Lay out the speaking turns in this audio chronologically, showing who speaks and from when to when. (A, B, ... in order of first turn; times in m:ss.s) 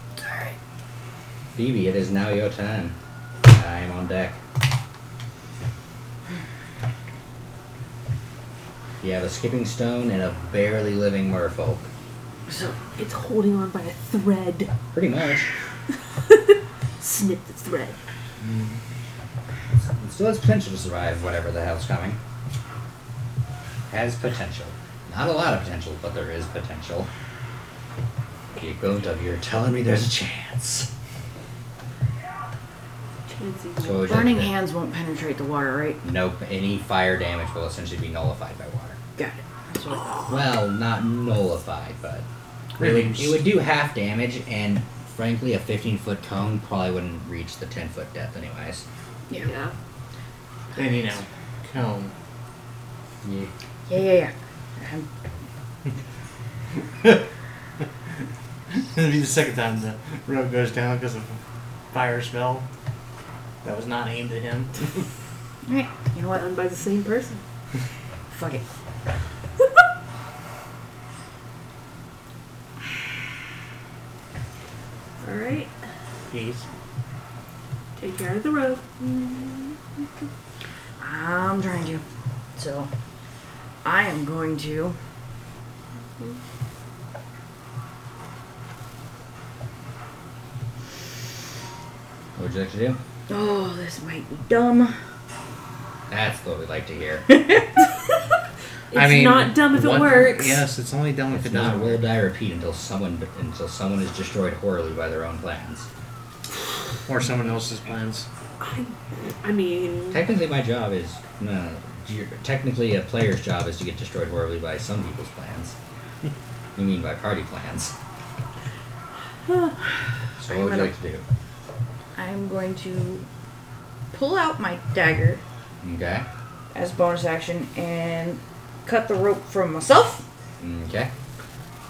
0:01.6-0:04.4 A
0:09.0-0:11.9 A
0:12.5-0:12.8 B
0:12.9-0:14.7 C
0:14.9-0:15.5 A
0:16.1-0:18.0 C
0:18.4-0:18.8 A
0:20.0-0:22.2 A
0:23.9-0:27.1 A
0:28.6-0:30.9 A
0:33.3-0:34.1 C
0:33.8-0:34.5 A
0:34.0-0:36.0 B
0:36.0-0:39.0 A
0:39.2-0:40.3 B
0:40.3-0:42.3 A
0:42.8-0:43.5 D
0:42.8-0:48.8 A
0:49.4-0:49.7 C
0:50.8-0:52.1 D
0:53.2-0:53.5 A
0:53.9-0:55.1 B
0:58.7-1:01.4 D
1:01.9-1:02.7 D
1:03.6-1:05.0 D
1:05.7-1:06.5 B
1:06.3-1:07.4 C
1:08.3-1:08.6 B
1:15.2-1:15.7 C
1:16.3-1:16.7 D
1:18.0-1:20.0 C
1:21.0-1:22.0 B
1:22.6-1:22.9 B
1:23.8-1:25.0 B
1:32.4-1:33.0 A
1:33.3-1:34.9 B
1:36.1-1:37.3 A
1:37.3-1:37.8 B
1:38.9-1:40.6 C
1:38.9-1:42.0 D
1:41.3-1:45.9 A
1:47.1-1:48.3 D
1:48.6-1:50.2 C
1:50.1-1:55.8 A
1:56.8-1:58.0 A
2:00.4-2:01.2 A
2:00.5-2:00.9 B
2:02.2-2:03.3 B
2:04.1-2:05.4 B
2:05.8-2:06.3 A
2:06.7-2:10.2 B
2:10.6-2:11.1 A